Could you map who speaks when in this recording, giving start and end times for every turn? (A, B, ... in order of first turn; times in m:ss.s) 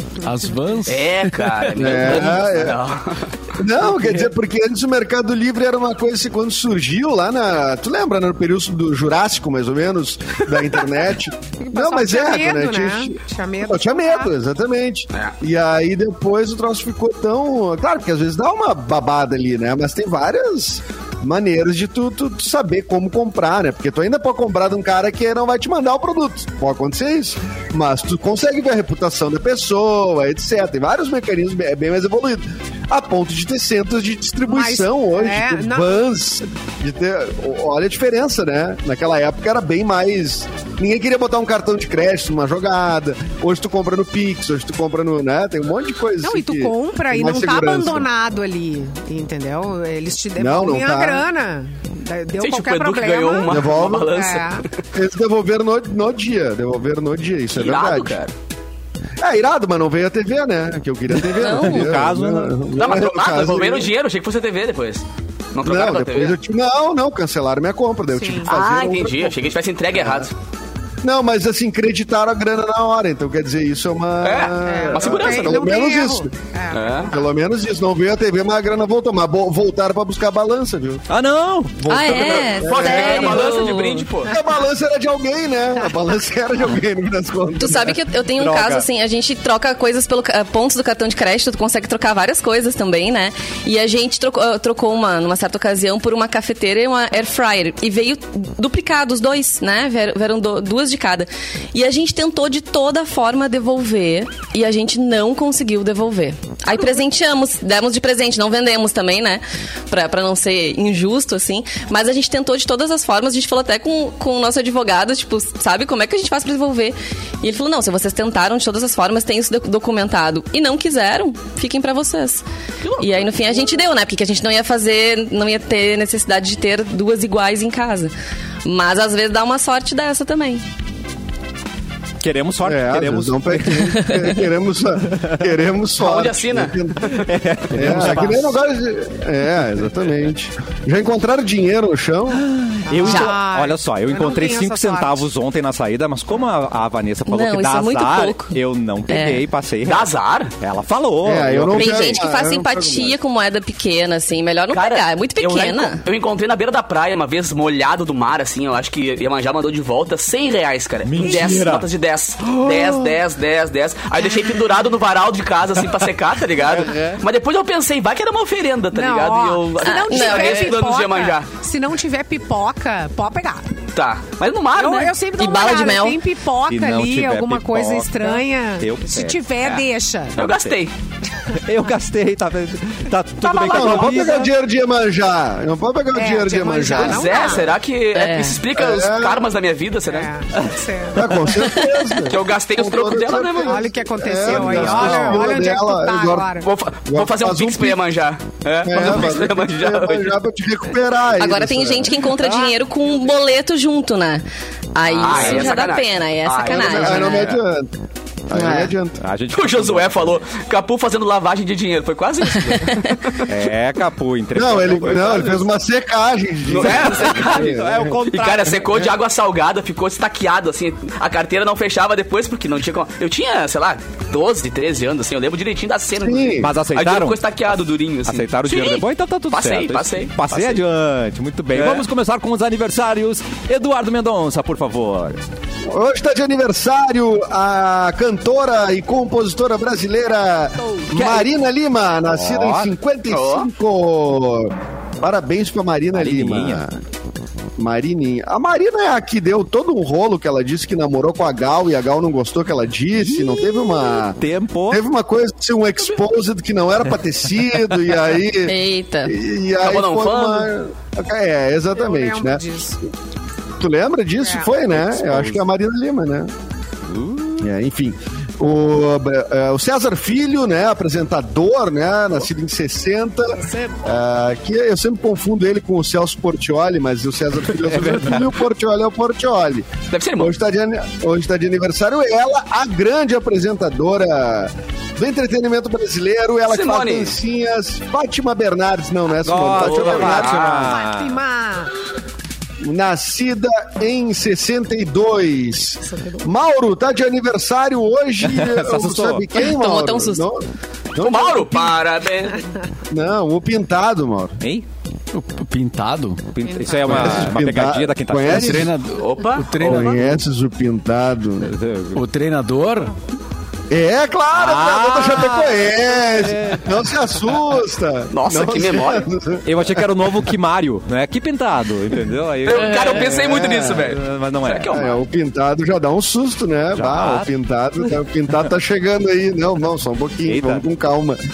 0:00.2-0:00.5 A
0:00.2-0:02.4 B
0:00.9-0:03.3 C
0:01.8-0:02.8 D
0:03.6-0:48.1 D
0:11.6-0:14.3 A
0:34.4-0:36.0 A
0:46.2-0:54.6 A
0:50.4-0:51.2 D
0:52.4-0:54.7 C
0:53.5-0:54.1 D
0:54.9-0:58.2 D
0:57.5-0:58.3 C
0:59.2-1:03.9 D
1:01.2-1:02.6 E
1:01.4-1:01.9 F
1:02.8-1:06.4 C
1:05.6-1:10.3 D
1:08.1-1:08.5 A
1:08.5-1:10.3 C
1:11.0-1:16.3 D
1:14.2-1:15.6 C
1:14.6-1:17.2 A
1:16.7-1:17.1 C
1:17.1-1:21.0 D
1:21.1-1:21.9 E
1:21.8-1:23.7 D
1:21.9-1:24.1 F
1:22.1-1:24.4 C
1:24.3-1:28.0 D
1:27.6-2:02.4 F
1:28.4-1:28.9 E
2:02.8-2:03.6 C
2:03.0-2:08.1 F
2:08.6-2:10.6 F
2:12.2-2:14.2 E
2:12.6-2:17.2 D
2:15.0-2:15.7 E
2:16.0-2:18.4 C
2:17.2-2:18.6 E
2:17.7-2:22.4 D
2:22.3-2:32.2 E
2:22.9-2:25.2 A
2:23.0-2:23.3 F
2:27.3-2:28.6 F
2:29.1-2:29.4 F
2:29.9-2:30.5 C
2:31.2-2:33.2 D
2:31.8-2:36.0 F
2:34.7-2:51.5 C
2:41.0-2:41.9 E
2:42.4-2:43.2 E
2:46.7-2:47.2 D
2:48.9-2:53.6 A
2:49.8-2:50.7 F
2:54.0-2:55.1 C
2:54.8-3:00.3 A
2:55.4-2:56.2 F
2:56.7-2:59.8 E
3:00.4-3:00.7 E
3:00.4-3:00.9 C
3:01.5-3:04.5 E
3:03.4-3:07.6 D
3:03.7-3:04.1 A
3:06.1-3:07.7 A
3:06.9-3:10.3 C
3:08.1-3:08.6 F
3:08.7-3:09.5 D
3:10.1-3:11.2 A
3:11.1-3:16.5 D
3:11.5-3:13.9 C
3:13.6-3:16.7 A
3:14.5-3:15.5 E
3:16.6-3:20.4 C
3:17.1-3:18.0 D
3:18.9-3:22.2 D
3:21.4-3:24.4 F
3:22.2-3:22.8 E
3:25.0-3:27.6 F
3:25.0-3:27.6 C
3:25.3-3:25.8 E
3:26.7-3:27.9 D
3:28.5-3:29.2 D
3:28.5-3:28.9 F
3:29.2-3:30.4 E
3:29.5-3:33.6 C
3:33.5-3:35.7 E
3:34.5-3:38.2 D
3:35.0-3:35.6 C
3:36.7-3:50.8 C
3:36.8-3:39.1 E
3:46.2-3:46.7 D
3:46.6-3:47.7 E
3:48.2-3:55.4 E
3:51.7-3:52.0 C
3:55.9-4:07.0 D
4:01.1-4:01.5 E
4:02.3-4:02.9 E
4:03.3-4:03.7 C
4:06.1-4:06.8 E
4:07.8-4:14.4 D
4:13.1-4:15.0 E
4:14.9-4:18.8 D
4:16.0-4:16.3 C
4:18.6-4:19.4 F
4:19.3-4:22.6 D
4:19.8-4:20.7 C
4:21.9-4:23.0 A
4:23.8-4:26.5 D
4:24.4-4:24.7 A
4:24.9-4:25.6 C
4:27.1-4:27.7 E
4:27.6-4:50.6 D
4:37.8-4:38.6 E
4:40.1-4:40.5 C
4:46.7-4:47.4 C
4:49.4-4:51.4 E
4:49.8-4:51.0 C
4:50.7-4:51.9 A
4:52.8-5:00.6 D
4:56.2-4:56.4 A
4:58.4-4:59.5 E
4:59.6-5:00.5 F
5:01.2-5:02.0 D
5:01.2-5:02.6 C
5:03.1-5:04.6 D
5:04.6-5:04.9 E
5:05.3-5:06.5 B
5:06.5-5:08.9 E
5:06.6-5:07.1 A
5:07.0-5:08.9 D
5:08.5-5:10.3 B
5:09.2-5:10.2 C
5:09.8-5:11.7 D
5:11.6-5:12.2 E
5:12.1-5:13.1 B
5:13.9-5:20.1 D
5:14.5-5:17.6 E
5:18.3-5:19.3 C
5:19.6-5:23.4 E
5:22.6-5:25.2 C
5:22.9-5:24.0 D
5:23.9-5:25.0 E
5:24.9-5:31.4 D
5:26.9-5:27.5 E
5:30.5-5:30.9 E